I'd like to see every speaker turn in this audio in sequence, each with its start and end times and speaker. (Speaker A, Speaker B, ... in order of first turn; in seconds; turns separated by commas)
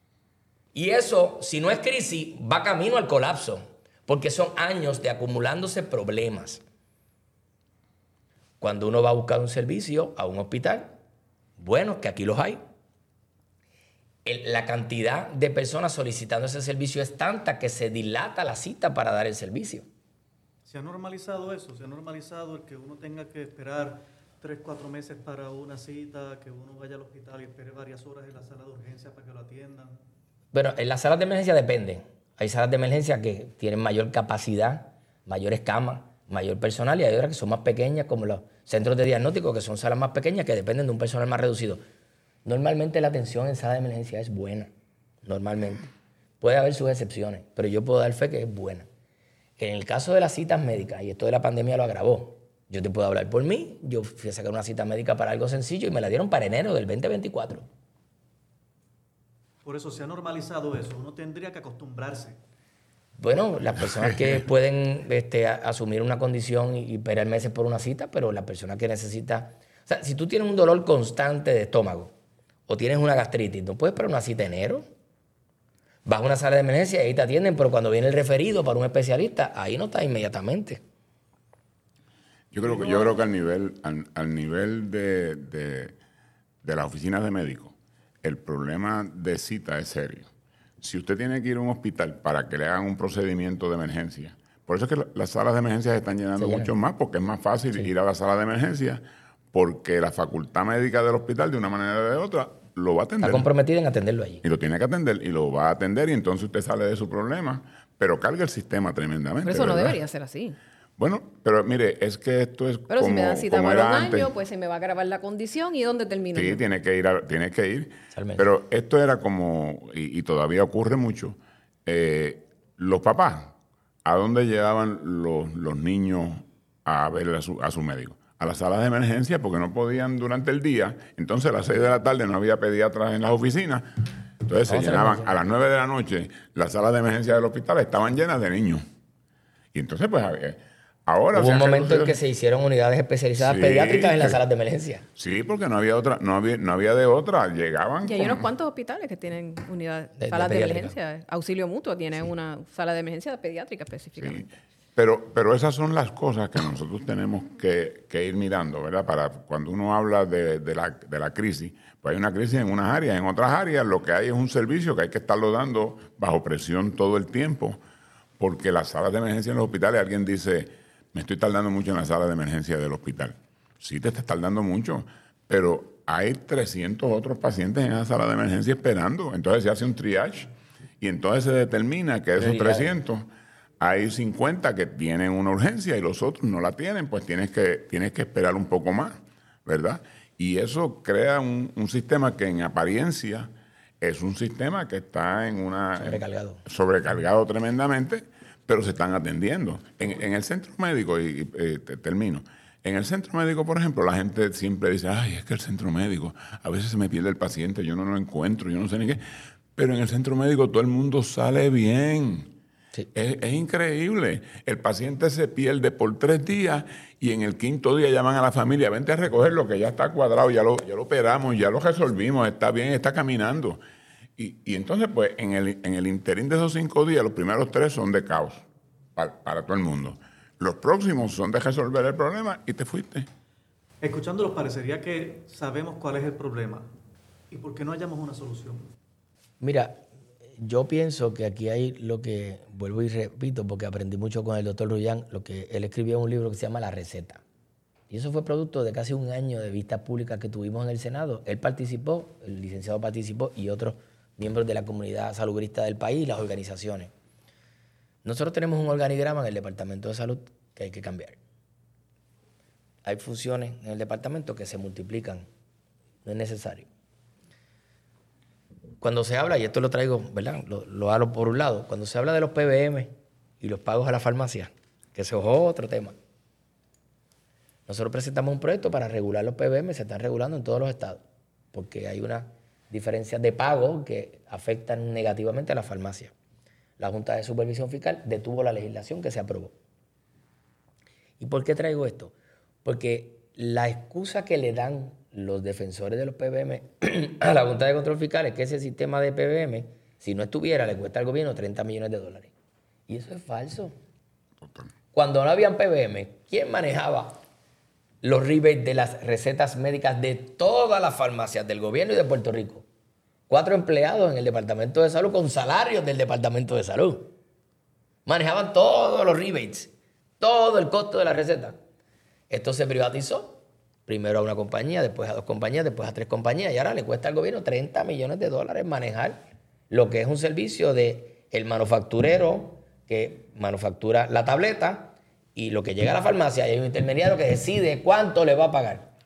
Speaker A: 0.7-6.6, Speaker A: 8.6-10.9, Speaker A: 11.6-12.6, Speaker A: 14.2-19.9, Speaker B: 20.7-30.0, Speaker A: 30.5-41.8, Speaker A: 42.5-44.7, Speaker A: 45.2-45.9, Speaker A: 46.4-48.9, Speaker A: 49.6-57.6, Speaker B: 59.6-62.4, Speaker A: 63.2-72.1, Speaker A: 72.7-74.8, Speaker A: 76.1-80.8, Speaker C: 82.5-86.0, Speaker C: 86.6-90.3, Speaker C: 90.8-99.0, Speaker A: 96.4-96.7, Speaker C: 99.5-103.5, Speaker A: 103.2-104.4, Speaker C: 104.4-110.0, Speaker D: 109.4-110.6, Speaker C: 111.0-114.3, Speaker D: 112.9-116.6, Speaker C: 116.3-138.8, Speaker A: 118.1-118.5, Speaker A: 134.6-135.4, Speaker C: 139.7-142.2, Speaker A: 141.3-145.1, Speaker C: 143.4-144.4, Speaker C: 145.2-148.5, Speaker D: 148.0-154.5, Speaker A: 150.2-150.9, Speaker C: 154.2-167.8, Speaker C: 168.4-183.3, Speaker A: 182.4-182.9, Speaker C: 183.8-193.5, Speaker C: 194.0-209.2, Speaker A: 196.0-196.6, Speaker C: 209.8-212.5, Speaker C: 213.1-223.8, Speaker C: 224.4-233.3, Speaker B: 234.0-236.9, Speaker B: 237.5-238.8, Speaker A: 239.6-240.0, Speaker A: 240.6-247.4, Speaker A: 248.1-257.1, Speaker A: 258.2-261.4, Speaker A: 263.0-265.5, Speaker A: 266.2-266.9, Speaker A: 269.0-276.1, Speaker A: 277.9-281.2, Speaker A: 281.7-286.3, Speaker A: 287.0-289.8, Speaker A: 291.4-292.3, Speaker A: 292.9-302.5, Speaker A: 303.1-303.9, Speaker C: 304.6-304.9, Speaker A: 305.1-307.4, Speaker A: 308.2-312.9, Speaker A: 313.5-317.3, Speaker A: 318.3-321.8, Speaker A: 322.5-339.1